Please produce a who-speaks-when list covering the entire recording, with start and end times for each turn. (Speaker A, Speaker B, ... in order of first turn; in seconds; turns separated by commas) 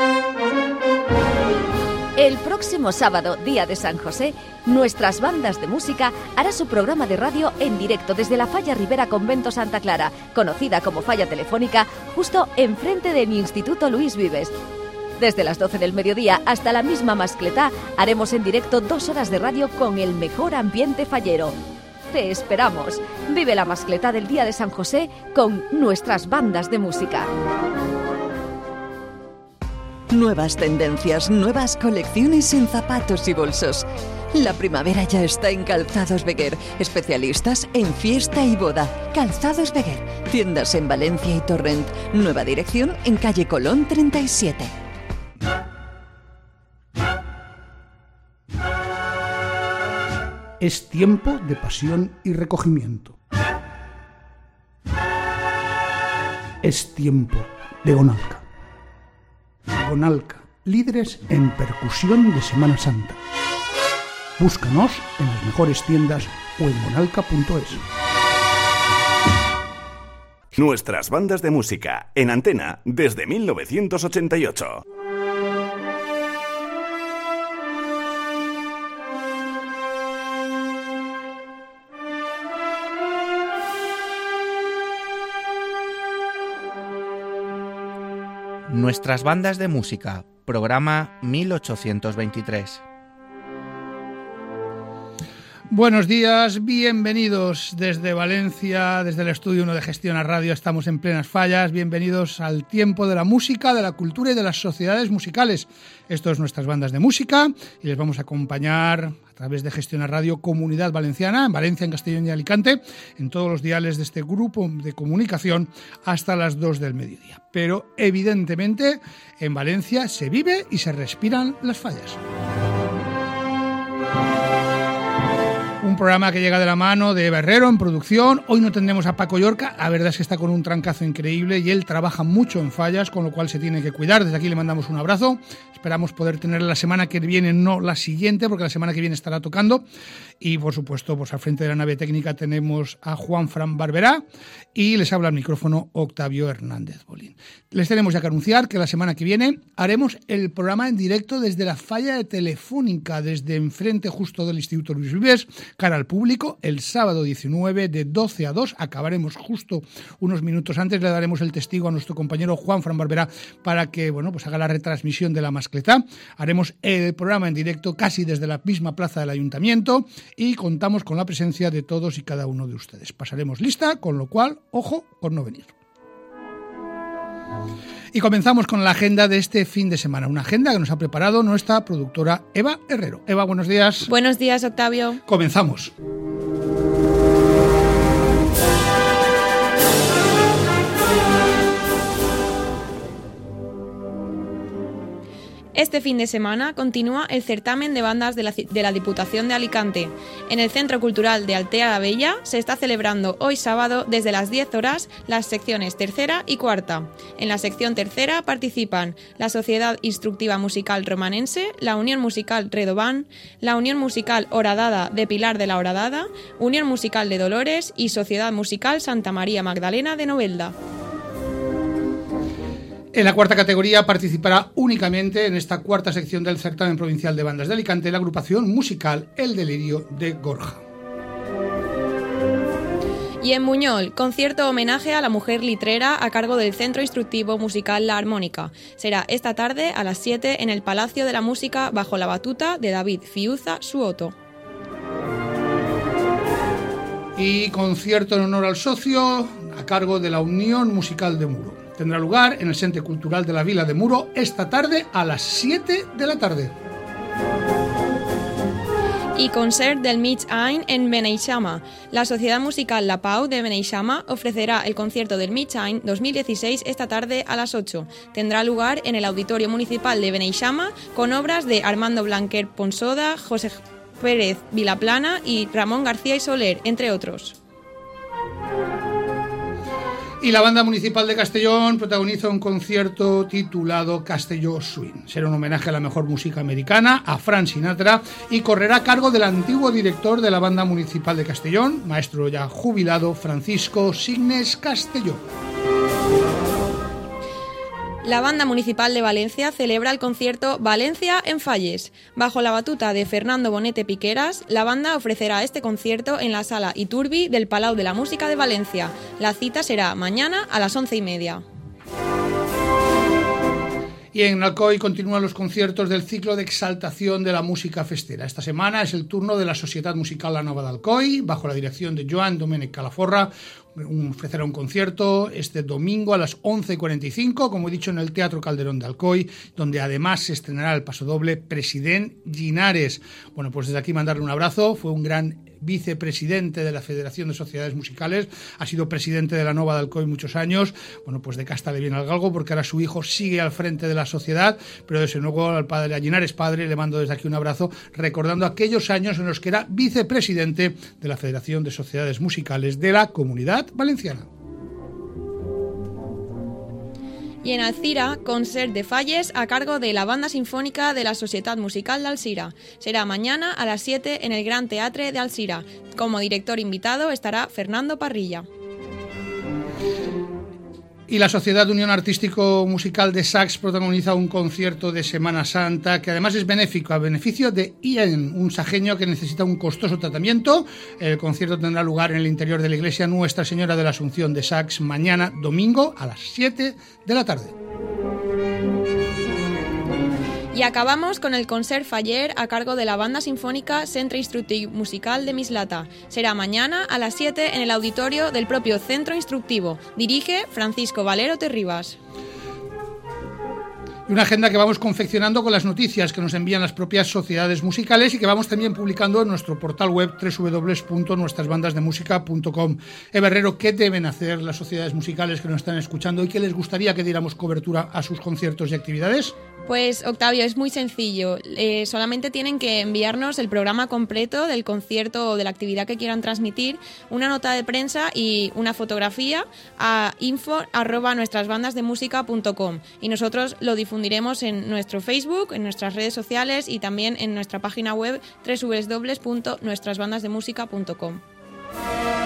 Speaker A: 2.2-14.6, Speaker A: 15.2-21.6, Speaker A: 22.1-27.3, Speaker B: 30.1-44.7, Speaker C: 50.6-53.2, Speaker C: 56.6-58.4, Speaker C: 59.7-63.2, Speaker C: 64.4-67.8, Speaker D: 70.5-74.8, Speaker E: 88.7-92.8, Speaker C: 95.7-122.2, Speaker C: 125.8-139.8, Speaker C: 140.4-144.2, Speaker C: 144.8-175.7, Speaker C: 178.1-184.1, Speaker F: 184.1-185.2, Speaker C: 185.3-185.9, Speaker F: 195.7-220.8, Speaker C: 223.1-230.8, Speaker F: 233.4-244.3, Speaker C: 247.4-256.8, Speaker F: 259.4-277.6, Speaker C: 280.4-295.4, Speaker F: 298.2-311.6, Speaker C: 314.3-354.5, Speaker F: 357.6-368.7, Speaker C: 371.3-387.8, Speaker F: 390.7-402.2, Speaker C: 404.3-419.5, Speaker F: 419.9-441.4